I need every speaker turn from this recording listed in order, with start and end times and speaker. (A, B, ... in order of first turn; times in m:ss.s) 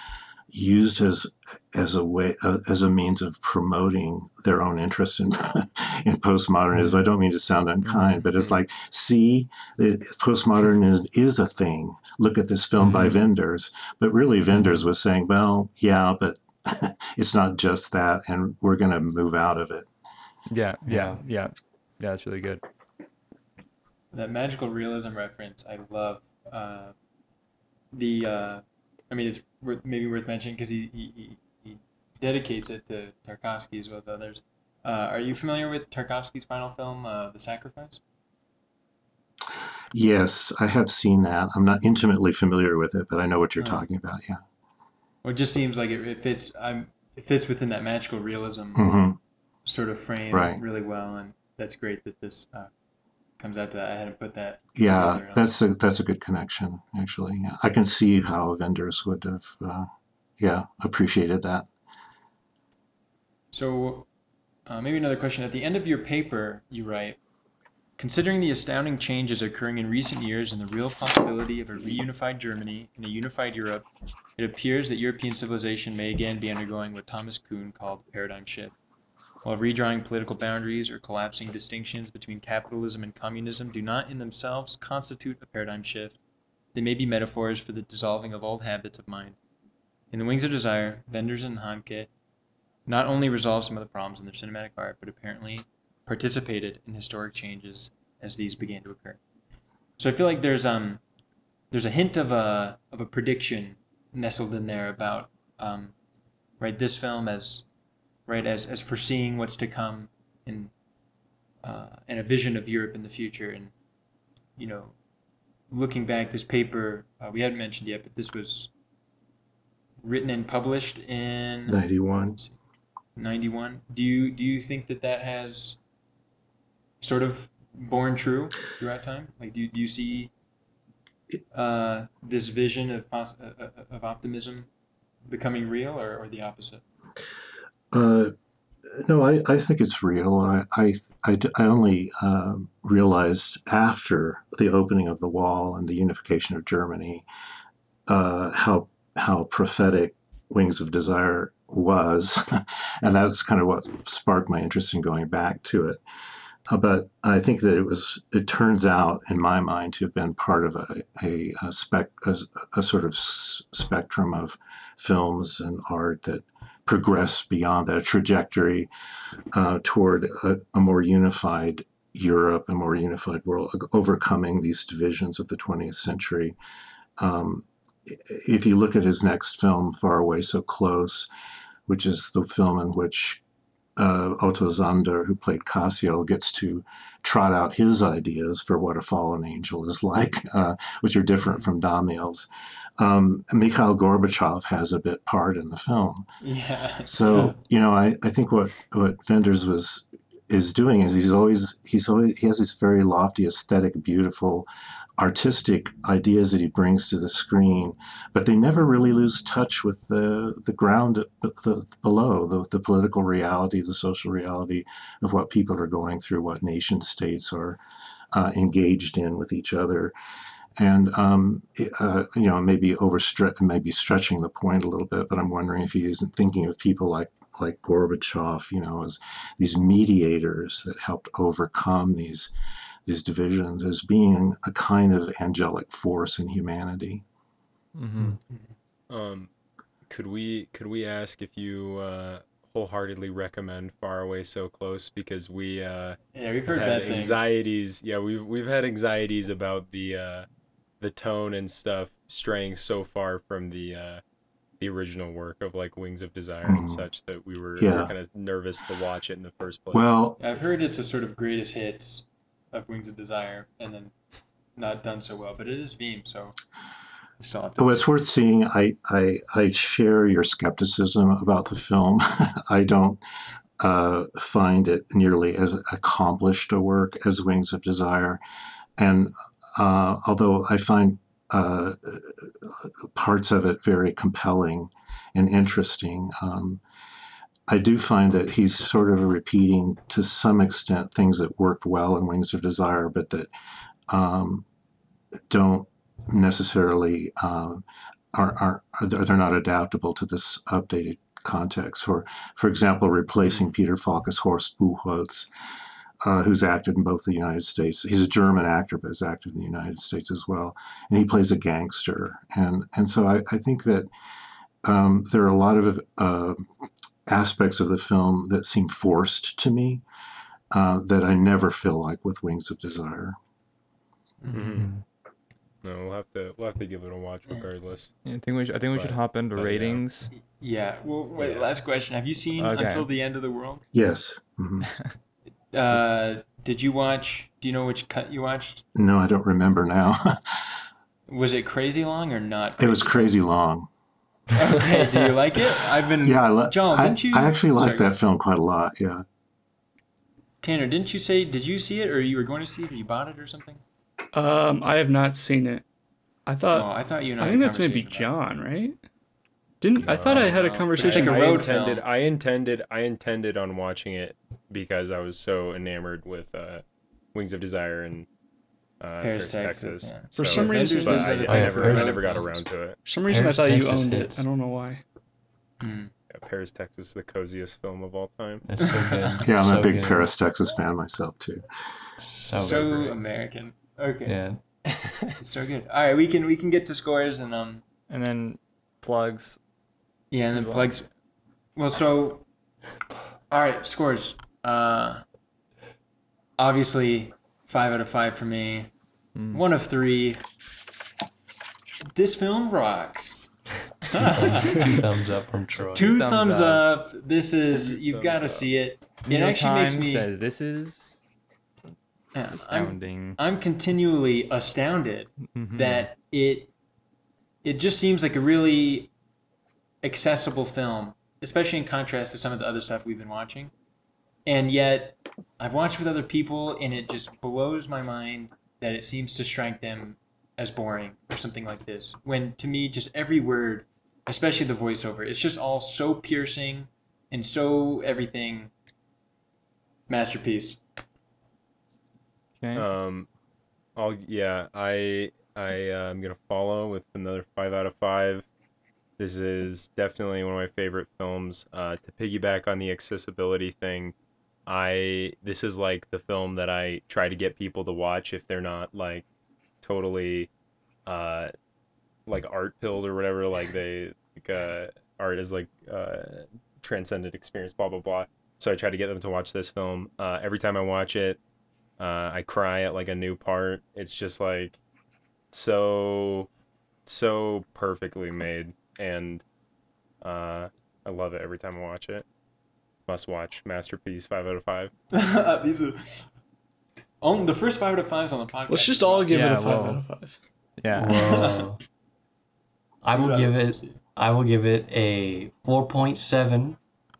0:00.5-0:19.9 A
0:06.7-0:07.0 B
0:07.9-0:08.2 C
0:08.3-0:08.6 D
0:12.8-0:13.2 C
0:14.5-0:14.8 B
0:20.5-0:22.6 C
0:20.8-0:21.2 B
0:24.1-0:26.9 E
0:27.9-0:38.0 E
0:39.9-0:44.4 A
0:43.6-0:43.8 E
0:45.2-0:48.8 E
0:48.8-0:49.2 A
0:49.6-0:52.7 E
0:50.3-0:50.6 A
0:53.4-0:55.5 E
0:54.8-1:01.7 A
1:03.5-1:04.1 E
1:04.6-1:07.2 E
1:08.0-1:13.8 E
1:14.4-1:18.7 E
1:19.4-1:26.2 E
1:26.7-1:29.4 E
1:30.1-1:32.1 E
1:32.8-1:39.2 E
1:40.0-1:41.0 E
1:41.7-1:45.9 E
1:46.6-1:47.7 E
1:48.3-1:50.7 E
1:51.6-1:53.7 E
1:54.6-1:54.9 E
1:55.7-1:58.7 E
2:00.0-2:01.8 E
2:01.7-2:02.4 A
2:03.2-2:05.8 E
2:07.0-2:10.3 E
2:11.5-2:14.7 E
2:15.3-2:16.8 E
2:17.9-2:18.3 A
2:18.9-2:27.2 A
2:28.1-2:36.0 A
2:36.7-2:48.9 A
2:49.5-2:56.6 A
2:57.2-3:01.3 A
3:01.9-3:03.4 A
3:04.0-3:12.5 A
3:13.0-3:16.3 A
3:16.4-3:17.5 E
3:17.0-3:24.7 A
3:25.2-3:37.8 A
3:38.3-3:40.1 A
3:40.8-3:52.5 A
3:53.0-3:57.2 A
3:58.0-3:58.4 D
3:59.1-3:59.5 D
4:00.1-4:10.5 D
4:06.3-4:07.4 E
4:11.0-4:14.2 D
4:14.8-4:20.1 D
4:16.6-4:17.0 A
4:17.8-4:18.1 A
4:19.9-4:20.4 A
4:20.4-4:24.1 E
4:24.8-4:26.5 E
4:27.4-4:28.1 E
4:27.8-4:33.2 A
4:33.8-4:38.4 A
4:39.0-4:46.8 A
4:47.7-4:53.5 A
4:54.1-4:54.6 A
4:55.5-5:05.5 A
5:06.2-5:14.1 A
5:14.8-5:16.7 A
5:17.3-5:20.0 A
5:20.7-5:23.4 A
5:24.4-5:24.7 E
5:24.5-5:24.9 D
5:24.7-5:25.0 B
5:25.8-5:28.1 D
5:28.2-5:30.3 C
5:28.9-5:30.0 D
5:30.3-5:33.8 E
5:31.4-5:31.7 D
5:32.6-5:33.1 C
5:33.9-5:34.9 A
5:34.8-5:35.1 C
5:35.7-5:38.8 E
5:38.9-5:40.6 A
5:41.3-5:43.3 E
5:42.8-5:43.9 A
5:44.5-5:48.1 E
5:46.2-5:49.2 A
5:50.6-5:53.8 E
5:54.3-5:55.8 F
5:56.5-5:59.0 F
5:56.7-5:58.3 E
5:59.8-6:01.6 F
6:00.0-6:08.3 D
6:00.2-6:02.0 E
6:09.0-6:13.0 D
6:09.2-6:12.6 E
6:10.4-6:11.9 F
6:11.5-6:12.2 B
6:13.0-6:15.0 F
6:13.3-6:14.4 B
6:15.8-6:16.1 E
6:16.3-6:18.6 D
6:18.6-6:20.3 B
6:18.8-6:19.4 E
6:19.4-6:21.6 A
6:22.2-6:23.1 B
6:22.4-6:24.4 E
6:24.2-6:24.6 B
6:25.3-6:27.8 E
6:28.1-6:29.6 C
6:30.3-6:31.1 E
6:30.5-6:31.0 C
6:31.8-6:32.4 E
6:33.5-6:35.2 E
6:36.6-6:38.9 E
6:39.3-6:39.6 C
6:39.5-6:40.4 E
6:42.1-6:43.5 E
6:44.1-6:45.0 E
6:44.2-6:46.2 B
6:45.9-6:46.8 C
6:45.9-6:50.3 E
6:47.7-6:48.7 D
6:49.3-6:51.2 C
6:52.3-6:56.7 E
6:52.6-6:53.4 C
6:55.5-6:56.0 C
6:57.6-6:59.1 E
7:00.0-7:03.7 E
7:04.4-7:18.7 E
7:20.1-7:20.8 E
7:22.6-7:22.8 C
7:22.7-7:23.3 D
7:24.0-7:28.4 D
7:29.2-7:34.1 D
7:34.7-7:39.2 D
7:39.8-7:40.5 D
7:41.0-7:41.5 D
7:42.3-7:51.4 D
7:52.0-7:54.8 D
7:55.5-7:56.5 D
7:57.0-7:59.4 D
8:00.2-8:02.2 D
8:03.1-8:04.9 D
8:05.1-8:06.3 E
8:07.2-8:09.3 E
8:08.7-8:10.4 F
8:09.3-8:10.0 C
8:10.8-8:11.5 C
8:10.9-8:11.8 B
8:11.1-8:11.6 E
8:13.0-8:16.8 B
8:13.1-8:14.0 E